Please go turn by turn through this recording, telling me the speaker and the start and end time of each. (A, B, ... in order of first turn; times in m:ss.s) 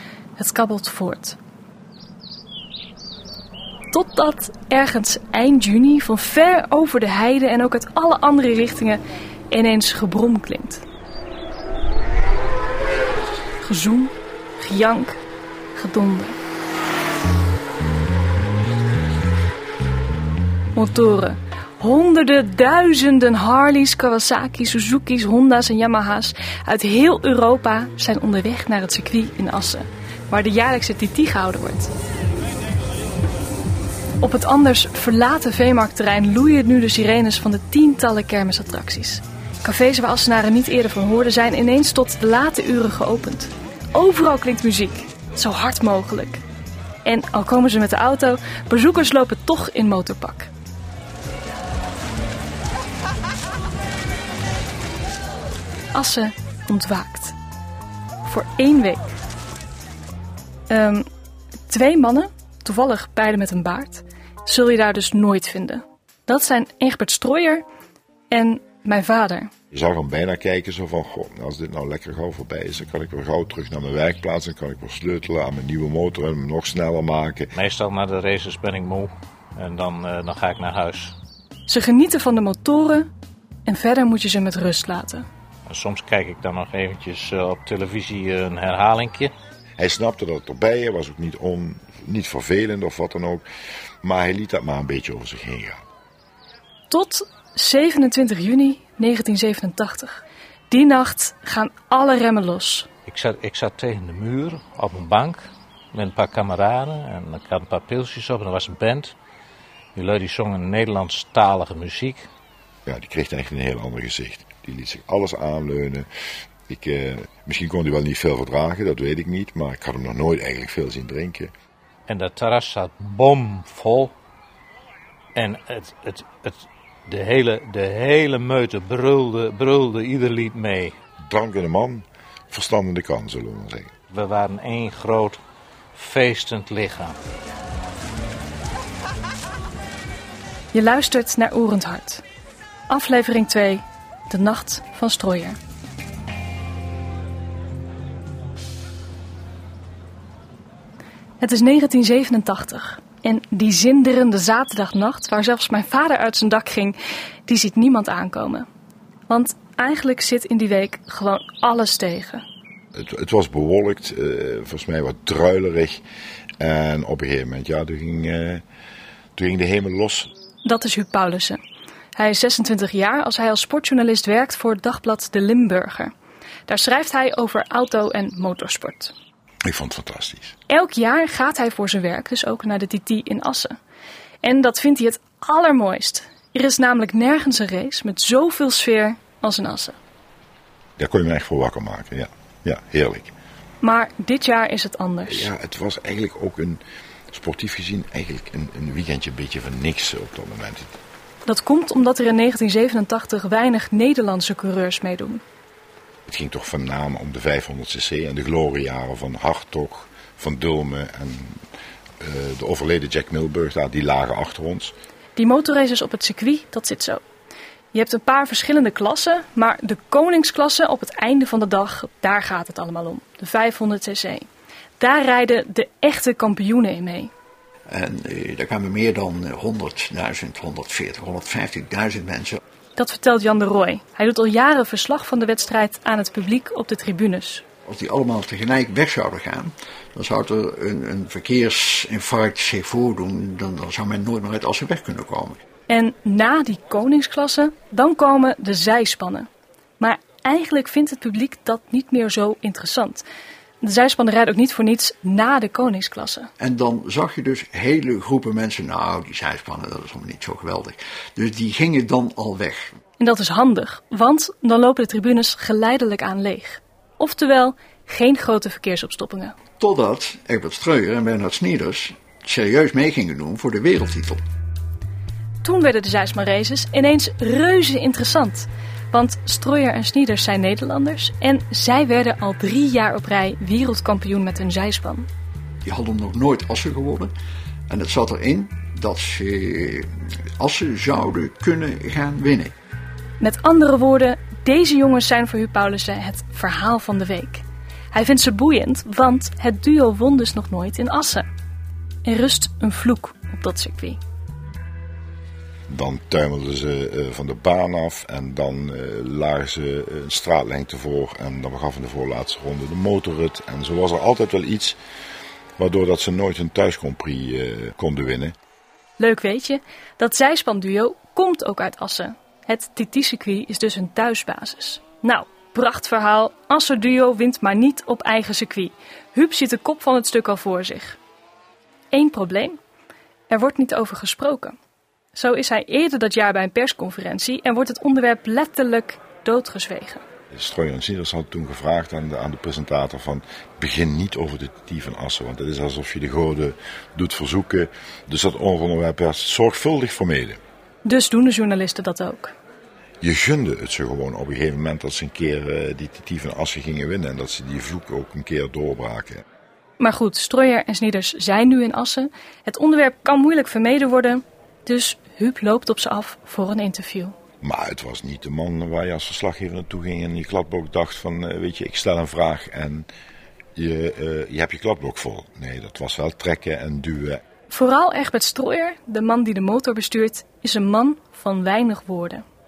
0:00.4-0:01.4 A
0:03.9-0:10.8 A
0:13.6-0:15.2 A
0:15.8-0:16.4 A
0:20.8-0:31.9 A
0:34.2-0:46.4 A
0:47.0-0:50.5 A
0:55.9-0:57.4 A
0:58.2-0:59.2 A
1:00.7-1:01.1 A
1:01.7-1:07.6 A
1:08.3-1:09.5 A
1:09.7-1:17.5 B
1:17.5-1:21.2 C
1:21.7-1:23.1 A
1:23.7-1:25.3 A
1:25.7-1:29.3 C
1:29.8-1:33.5 B
1:34.0-1:35.8 B
1:36.9-1:42.9 A
1:43.1-1:49.2 C
1:49.9-1:52.3 C
1:52.9-1:56.1 B
1:56.7-2:01.5 B
2:02.1-2:04.1 C
2:05.4-2:11.0 C
2:11.3-2:13.9 B
2:14.1-2:15.4 C
2:16.0-2:17.2 C
2:20.7-2:22.2 A
2:22.9-2:25.6 A
2:31.4-2:38.7 A
2:39.3-2:42.4 A
2:43.0-2:46.0 B
2:46.6-2:48.6 B
2:49.4-2:50.3 B
2:50.6-2:51.6 A
2:52.2-2:56.1 A
2:56.7-2:59.1 A
2:59.6-3:00.6 B
3:00.7-3:03.8 A
3:04.4-3:10.0 A
3:11.0-3:13.3 B
3:13.8-3:15.5 A
3:15.3-3:21.0 B
3:21.5-3:25.4 A
3:26.3-3:31.6 B
3:32.2-3:34.9 B
3:35.4-3:37.2 A
3:37.9-3:44.5 A
3:45.0-3:47.3 A
3:47.9-3:52.6 D
3:53.0-3:57.6 A
3:57.9-4:05.6 D
4:05.9-4:09.5 A
4:10.0-4:13.2 A
4:13.8-4:16.5 A
4:16.6-4:22.9 D
4:23.2-4:29.6 A
4:29.8-4:34.4 D
4:35.6-4:45.3 A
4:45.8-4:47.3 D
4:47.9-4:52.7 D
4:53.4-5:01.5 A
5:02.2-5:04.2 A
5:05.9-5:15.0 B
5:15.8-5:18.6 B
5:19.2-5:31.2 A
5:32.1-5:32.8 A
5:33.5-5:34.8 A
5:35.3-5:40.2 A
5:40.5-5:50.6 B
5:51.0-5:52.5 A
5:53.2-5:59.4 B
6:00.0-6:07.4 A
6:07.6-6:13.1 B
6:13.8-6:17.4 B
6:17.7-6:22.4 A